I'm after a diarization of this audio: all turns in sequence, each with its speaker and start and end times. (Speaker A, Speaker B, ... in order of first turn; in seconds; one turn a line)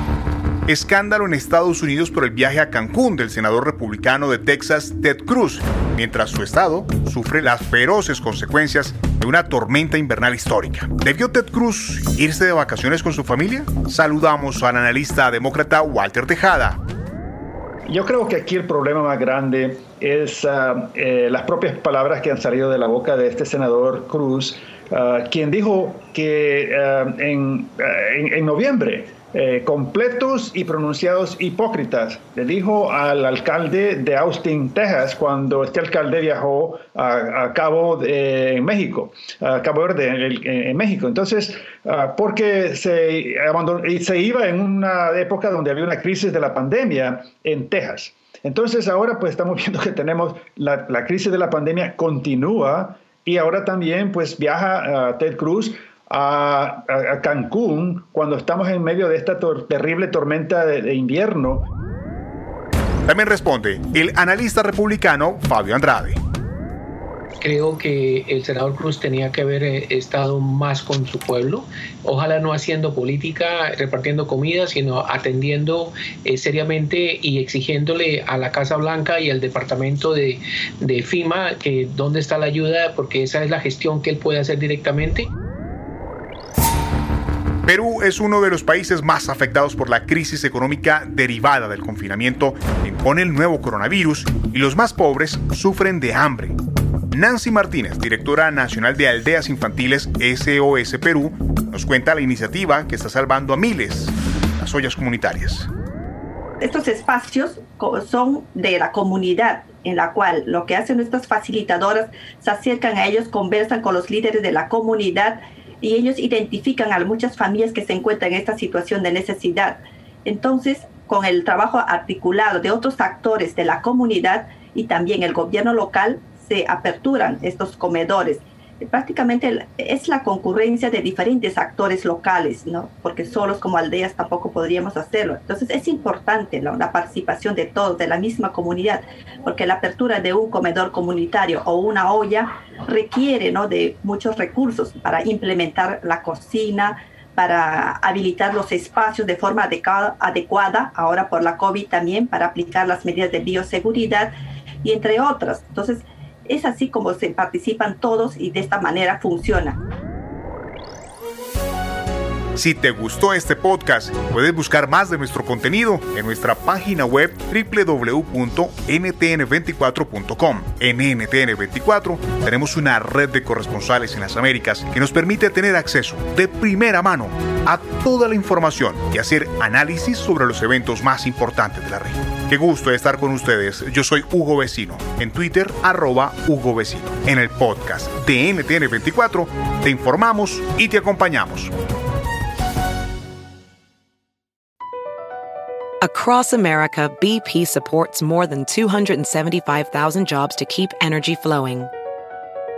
Speaker A: 0.7-16.8
Speaker B: 17.9-61.7
Speaker A: 63.1-66.2
Speaker C: 67.4-85.3
Speaker A: 87.7-96.6
Speaker A: 97.1-105.7
Speaker D: 106.6-159.8
Speaker A: 162.6-191.7
Speaker E: 196.0-201.9